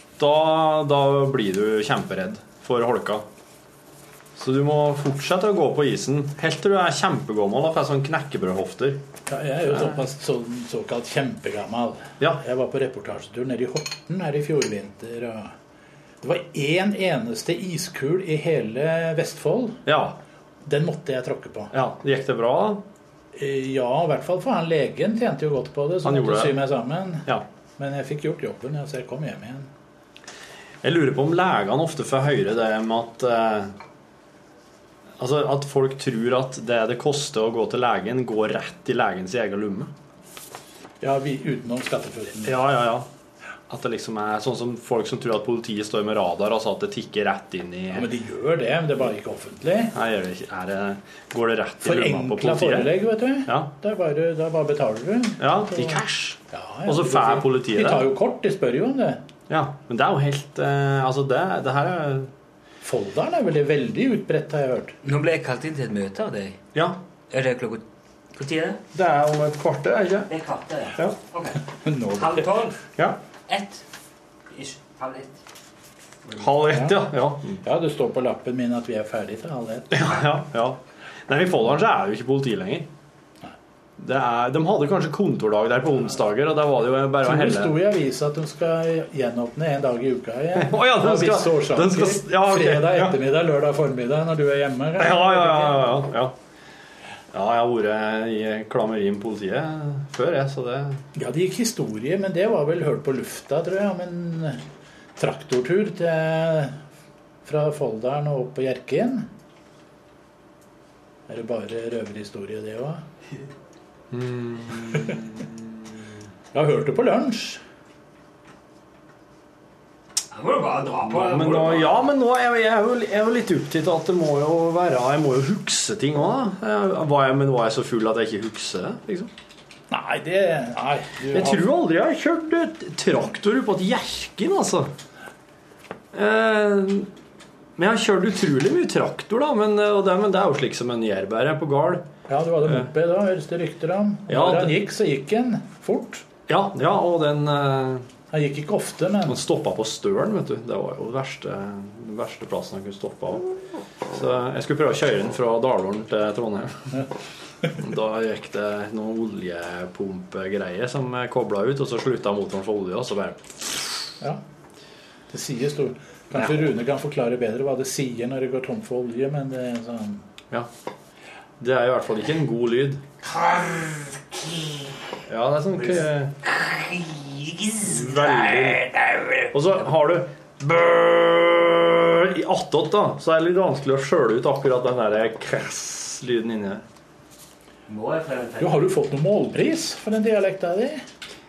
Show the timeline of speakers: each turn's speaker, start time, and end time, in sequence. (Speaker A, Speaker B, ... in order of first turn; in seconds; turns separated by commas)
Speaker A: 0.2-3.2, Speaker A: 4.3-9.0, Speaker B: 9.3-15.5, Speaker A: 9.7-10.0, Speaker B: 16.2-19.8, Speaker A: 19.9-20.2, Speaker B: 20.6-21.7, Speaker A: 21.7-22.8, Speaker B: 23.3-29.7, Speaker A: 26.0-26.6, Speaker A: 30.8-33.7, Speaker A: 35.2-39.9, Speaker B: 41.0-42.5, Speaker A: 42.4-43.1, Speaker A: 43.7-48.1, Speaker B: 47.9-49.9, Speaker A: 49.9-53.7, Speaker B: 51.8-59.2, Speaker A: 55.4-58.1, Speaker A: 59.5-62.3, Speaker B: 62.8-64.9, Speaker C: 65.0-66.6, Speaker A: 66.7-67.0, Speaker C: 67.3-67.8, Speaker C: 68.3-68.8, Speaker A: 68.9-70.3, Speaker C: 70.3-71.6, Speaker B: 71.8-72.5, Speaker C: 72.1-72.8, Speaker C: 73.5-73.8, Speaker C: 74.5-75.4, Speaker A: 76.4-77.6, Speaker B: 76.7-77.0, Speaker B: 77.6-80.0, Speaker A: 79.9-82.9, Speaker A: 84.0-87.8, Speaker B: 87.2-95.9, Speaker A: 90.5-93.2, Speaker A: 95.0-96.3, Speaker A: 97.3-101.0, Speaker B: 101.1-104.6, Speaker B: 105.2-106.8, Speaker B: 107.4-109.3, Speaker B: 111.3-113.0, Speaker A: 114.1-116.0, Speaker B: 116.5-117.6, Speaker C: 120.3-122.0, Speaker A: 121.0-129.3, Speaker B: 129.9-131.7, Speaker A: 131.3-134.9, Speaker A: 136.1-137.1, Speaker A: 137.8-142.1, Speaker B: 142.3-146.3, Speaker A: 142.6-142.9, Speaker A: 144.3-144.8, Speaker A: 146.5-148.1, Speaker B: 148.3-149.4, Speaker A: 149.2-153.5, Speaker A: 154.1-157.0, Speaker A: 157.8-163.9, Speaker B: 165.3-170.2, Speaker A: 171.6-173.0, Speaker C: 173.2-174.8, Speaker A: 175.3-176.3, Speaker C: 176.4-179.5, Speaker A: 177.8-178.8, Speaker A: 179.5-186.8, Speaker C: 187.9-188.9, Speaker B: 188.6-191.0